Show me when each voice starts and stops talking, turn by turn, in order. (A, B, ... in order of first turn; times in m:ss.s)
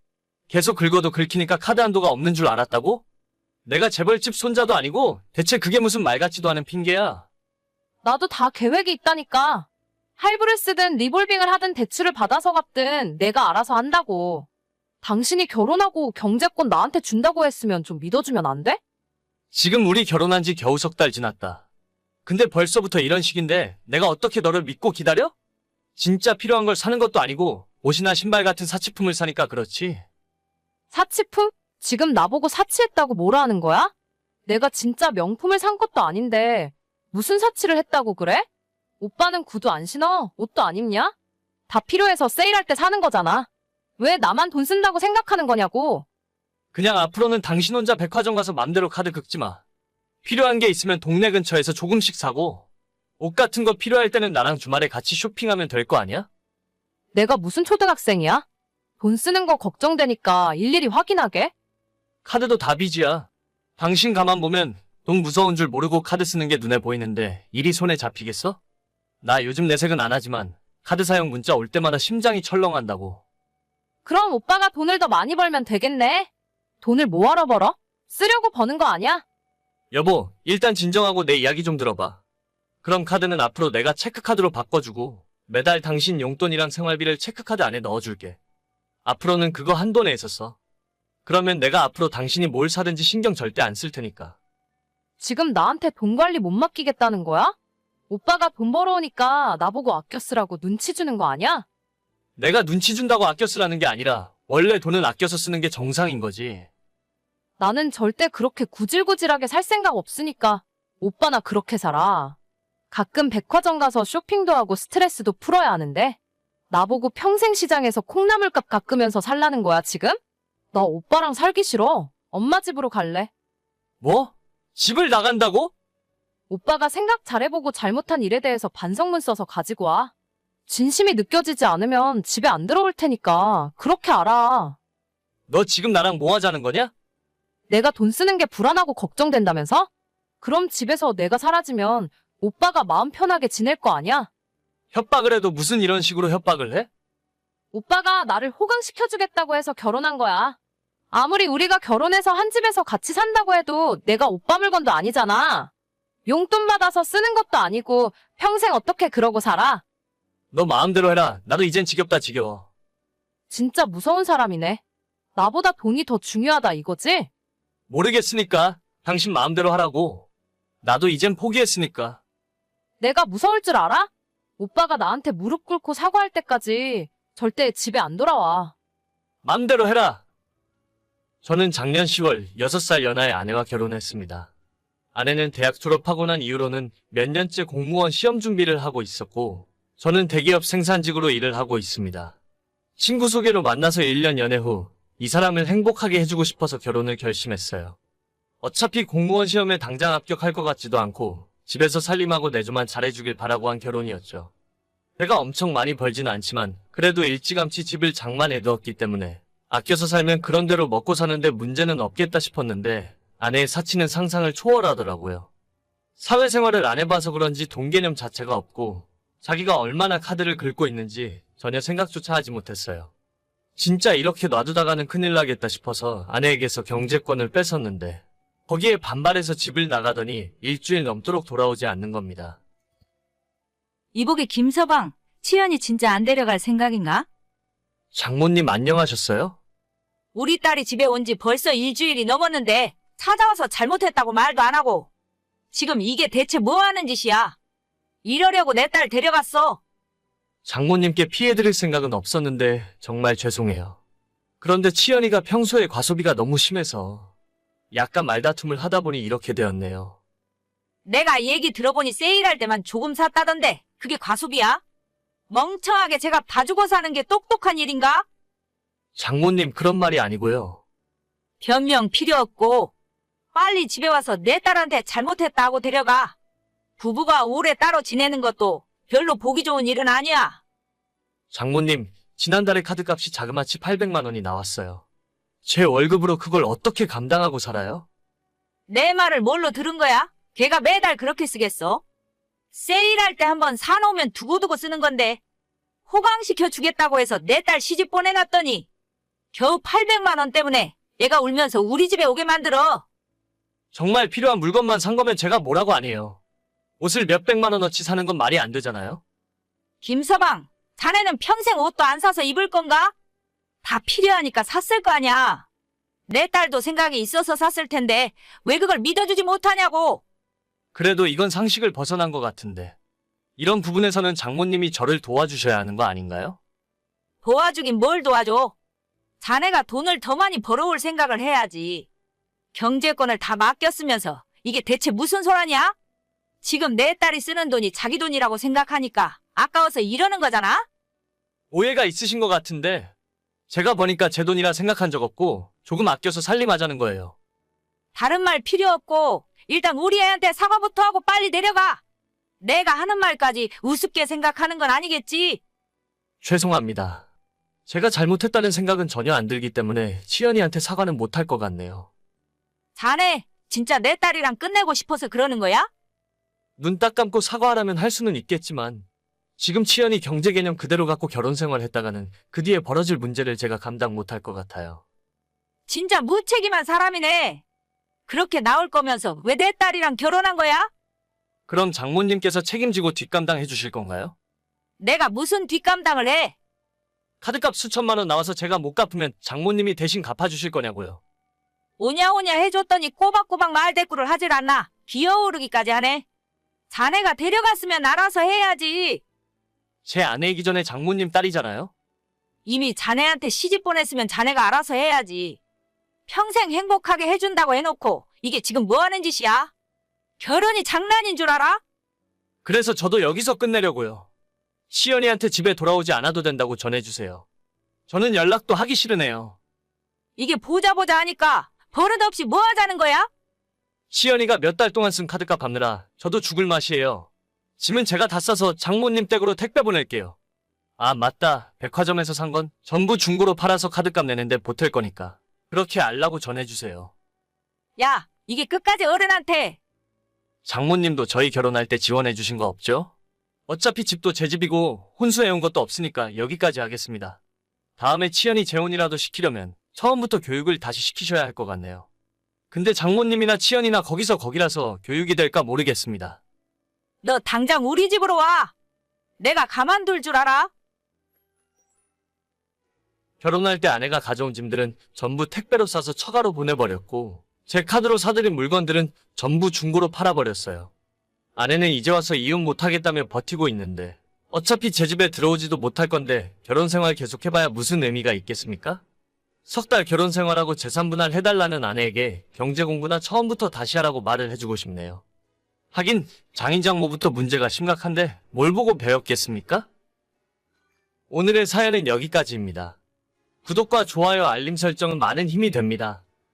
0:00.5-0:03.0 A
0:03.6-0:07.2 A
0:08.0-0:09.7 B
0:10.2-0:14.5 B
0:15.0-0:18.8 B
0:19.5-0:21.6 A
0:22.2-0:25.3 A
0:26.0-0:30.0 A
0:30.9-0:33.9 B
0:34.4-0:38.5 B
0:39.0-0:41.1 B
0:41.7-0:46.0 B
0:46.7-0:49.6 A
0:50.2-0:52.6 A
0:53.2-0:56.3 A
0:57.1-0:58.4 B
0:59.0-1:01.5 B
1:02.2-1:08.6 A
1:09.2-1:13.2 A
1:14.0-1:16.3 B
1:16.8-1:19.2 B
1:19.9-1:22.2 A
1:22.8-1:28.4 A
1:29.0-1:30.6 A
1:31.2-1:34.4 A
1:35.2-1:37.5 B
1:38.1-1:41.6 B
1:42.4-1:46.7 A
1:47.6-1:52.4 B
1:52.9-1:56.2 B
1:56.7-2:00.2 B
2:00.7-2:03.3 B
2:04.0-2:05.7 A
2:06.5-2:10.1 B
2:10.7-2:14.8 B
2:15.5-2:16.9 A
2:17.7-2:19.9 B
2:20.4-2:24.3 B
2:24.9-2:26.9 A
2:27.7-2:30.6 B
2:31.1-2:35.7 B
2:36.2-2:39.8 B
2:40.5-2:42.7 A
2:43.5-2:44.8 B
2:45.3-2:47.3 B
2:47.9-2:50.3 A
2:50.8-2:52.2 A
2:53.0-2:58.7 B
2:59.4-3:00.2 A
3:01.4-3:04.5 A
3:05.1-3:12.4 A
3:13.0-3:18.0 A
3:18.6-3:24.5 A
3:25.2-3:35.5 A
3:36.2-3:43.1 A
3:43.8-3:52.6 A
3:54.1-3:57.2 C
3:58.1-3:59.6 A
4:00.3-4:05.1 C
4:05.7-4:07.6 C
4:08.2-4:09.8 C
4:10.6-4:14.0 A
4:14.6-4:17.3 A
4:17.9-4:20.2 A
4:21.0-4:24.8 C
4:25.5-4:28.2 C
4:29.2-4:30.8 A
4:31.6-4:32.9 C
4:33.5-4:36.3 C
4:37.0-4:40.6 C
4:41.5-4:45.0 A
4:45.6-4:48.0 A
4:48.9-4:52.0 C
4:52.7-4:55.4 C
4:56.1-4:58.9 C
4:59.5-5:03.0 C
5:03.9-5:06.4 A
5:07.0-5:09.2 A
5:10.0-5:13.1 C
5:13.8-5:15.6 C
5:16.3-5:20.2 C
5:20.9-5:23.0 A
5:23.6-5:26.6 A
5:27.4-5:28.7 C
5:29.4-5:32.1 C
5:32.7-5:35.9 C
5:36.6-5:40.8 C
5:41.7-5:43.1 A
5:43.7-5:47.3 A
5:48.1-5:52.0 C
5:52.6-5:55.6 C
5:56.4-5:57.2 A
5:57.9-6:02.1 A
6:03.0-6:05.9 C
6:06.8-6:09.0 A
6:09.6-6:15.0 A
6:15.9-6:17.6 C
6:18.3-6:20.9 C
6:21.7-6:24.3 A
6:25.0-6:26.5 C
6:27.4-6:31.2 A
6:32.0-6:36.2 C
6:36.9-6:39.2 C
6:40.0-6:41.9 A
6:42.6-6:45.6 C
6:46.3-6:49.7 C
6:50.4-6:51.8 C
6:52.6-6:54.3 A
6:54.9-6:57.4 A
6:58.1-6:59.6 A
7:00.4-7:03.3 C
7:04.1-7:10.4 A
7:11.0-7:17.1 A
7:18.0-7:19.8 C
7:20.6-7:23.1 A
7:23.7-7:27.4 A
7:28.0-7:32.1 A
7:32.7-7:36.4 A
7:37.2-7:38.7 C
7:39.4-7:40.7 C
7:43.4-7:50.9 A
7:51.6-7:59.0 A
7:59.6-8:05.2 A
8:05.9-8:09.9 A
8:11.3-8:13.0 A
8:13.6-8:16.2 A